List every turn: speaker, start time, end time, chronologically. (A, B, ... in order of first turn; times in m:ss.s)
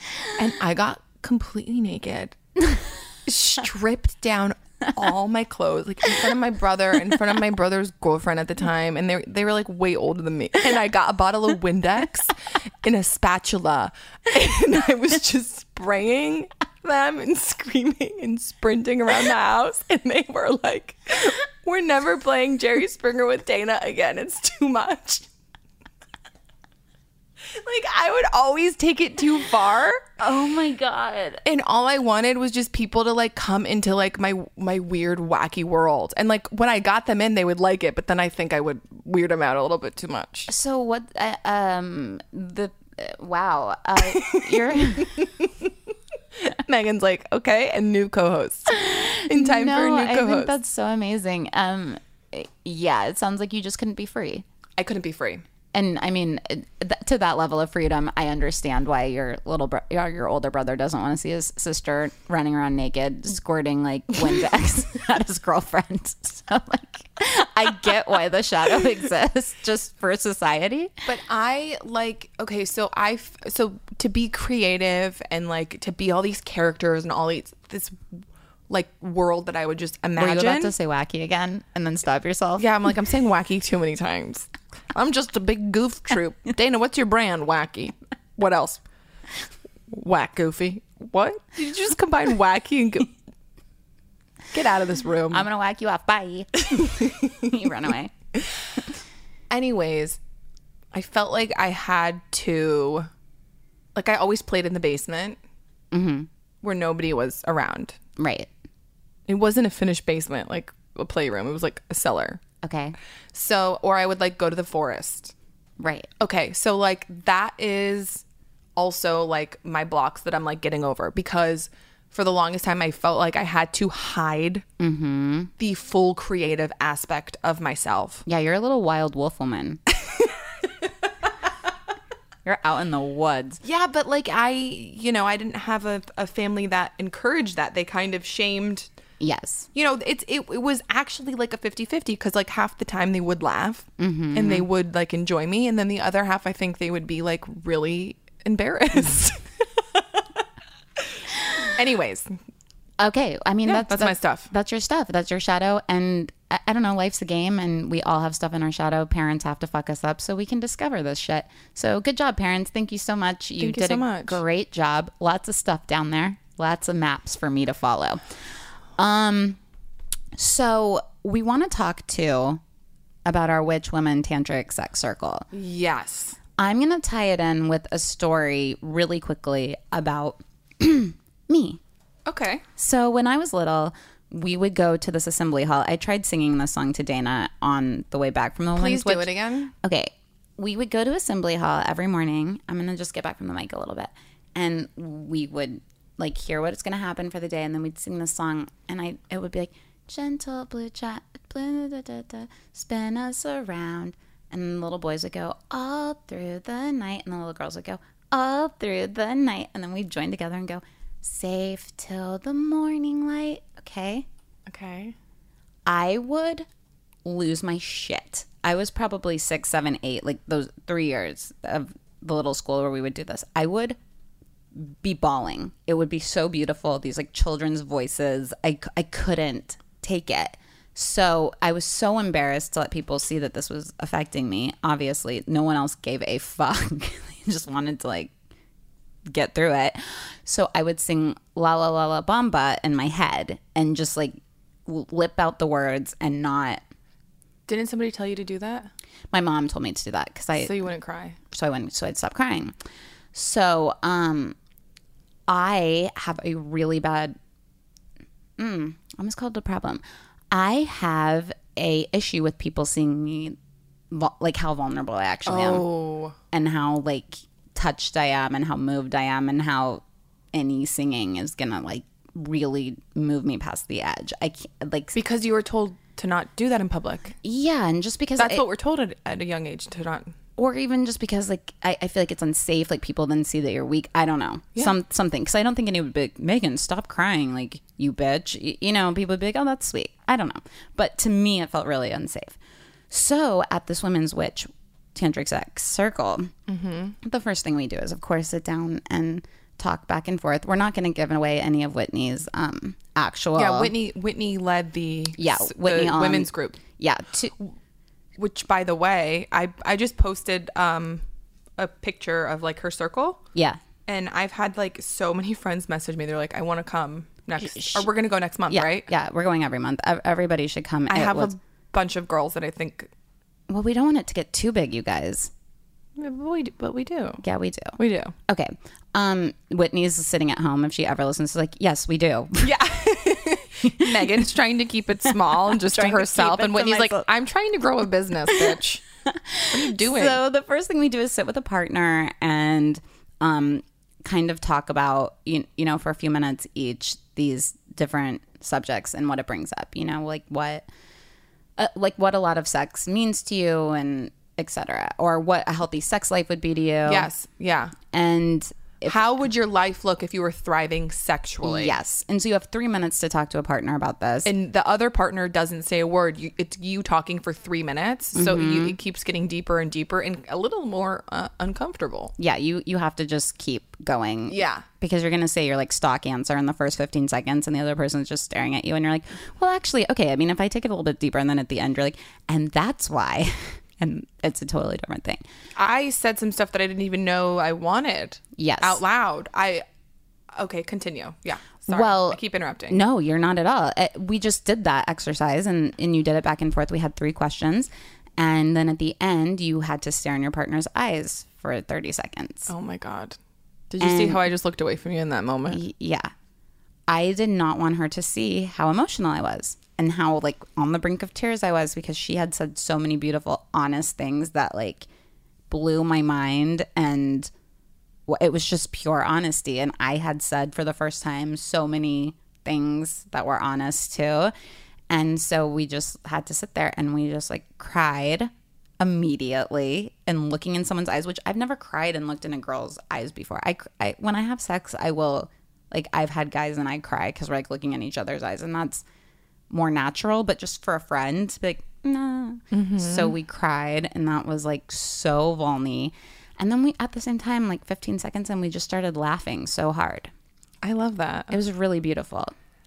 0:00.3-0:02.4 A
0:03.2-0:25.2 A
0:27.4-0:30.1 A
0:30.2-0:31.4 B
0:31.4-0:40.5 A
0:40.5-0:45.3 B
0:44.0-0:45.7 A
0:46.4-0:48.7 A
0:48.7-0:54.4 B
0:49.3-0:50.6 A
0:54.8-0:55.4 A
0:55.7-1:10.9 B
1:11.0-1:20.7 A
1:20.2-1:22.6 B
1:22.6-1:28.8 A
1:29.9-1:33.1 A
1:34.5-1:35.4 A
1:35.3-1:38.1 B
1:39.5-1:40.2 A
1:40.9-1:43.1 A
1:43.9-1:45.4 A
1:45.9-1:46.3 B
1:46.6-1:48.0 A
1:48.2-1:48.5 B
1:49.3-1:52.4 A
1:52.6-1:53.0 B
1:53.3-1:55.3 A
1:55.8-1:56.1 B
1:56.2-1:58.2 A
1:58.8-2:04.6 A
2:04.8-2:05.5 B
2:05.6-2:08.2 A
2:08.2-2:09.8 B
2:10.0-2:10.3 A
2:12.4-2:13.6 B
2:13.6-2:18.9 A
2:19.2-2:19.7 B
2:19.7-2:30.2 A
2:24.0-2:24.7 B
2:31.7-2:32.3 A
2:33.0-2:48.2 B
2:33.6-2:34.5 A
2:43.6-2:44.4 A
2:49.0-2:49.6 B
2:50.3-2:52.6 B
2:53.2-2:55.5 B
2:55.5-2:56.4 A
2:56.6-3:01.8 B
3:02.2-3:02.6 A
3:02.8-3:34.2 B
3:08.8-3:09.7 A
3:34.6-3:35.1 A
3:35.8-3:36.6 B
3:37.2-3:44.0 B
3:44.7-3:58.3 B
3:59.3-4:06.8 B
4:07.7-4:08.9 A
4:09.3-4:10.7 B
4:10.6-4:11.4 A
4:11.5-4:12.7 B
4:13.3-4:14.6 B
4:15.5-4:17.4 B
4:18.6-4:23.6 B
4:24.1-4:25.9 B
4:25.4-4:26.3 A
4:26.5-4:35.2 B
4:35.1-4:37.4 A
4:37.4-4:38.6 B
4:38.4-4:40.3 A
4:40.6-4:52.6 B
4:53.1-4:56.5 B
4:56.7-4:57.2 A
4:57.2-5:03.9 B
5:03.6-5:06.8 A
5:05.4-5:07.5 B
5:08.4-5:11.2 A
5:11.8-5:13.4 A
5:14.1-5:19.1 A
5:17.6-5:18.1 B
5:18.7-5:21.5 B
5:21.1-5:23.1 A
5:23.7-5:25.5 B
5:26.2-5:27.4 A
5:27.4-5:28.0 B
5:28.0-5:28.3 A
5:28.5-5:32.7 B
5:32.6-5:39.0 A
5:33.8-5:34.3 B
5:35.6-5:37.2 B
5:38.5-5:50.8 B
5:39.7-5:40.4 A
5:51.8-5:57.3 B
5:57.0-5:57.9 A
5:58.1-5:59.2 B
5:59.0-6:02.0 A
6:01.6-6:04.5 B
6:04.4-6:12.3 A
6:08.3-6:09.0 B
6:12.4-6:25.4 B
6:14.5-6:14.8 A
6:25.8-6:29.8 A
6:28.6-6:29.0 B
6:30.5-6:33.0 A
6:31.9-6:42.7 B
6:42.7-6:43.4 A
6:43.9-6:45.8 A
6:44.0-6:44.5 B
6:45.7-6:46.3 B
6:47.1-6:55.1 B
6:55.7-6:57.5 B
6:58.3-7:04.5 B
7:05.1-7:19.0 B
7:19.7-7:30.3 B
7:22.7-7:23.3 A
7:30.8-7:31.5 A
7:31.5-7:32.5 B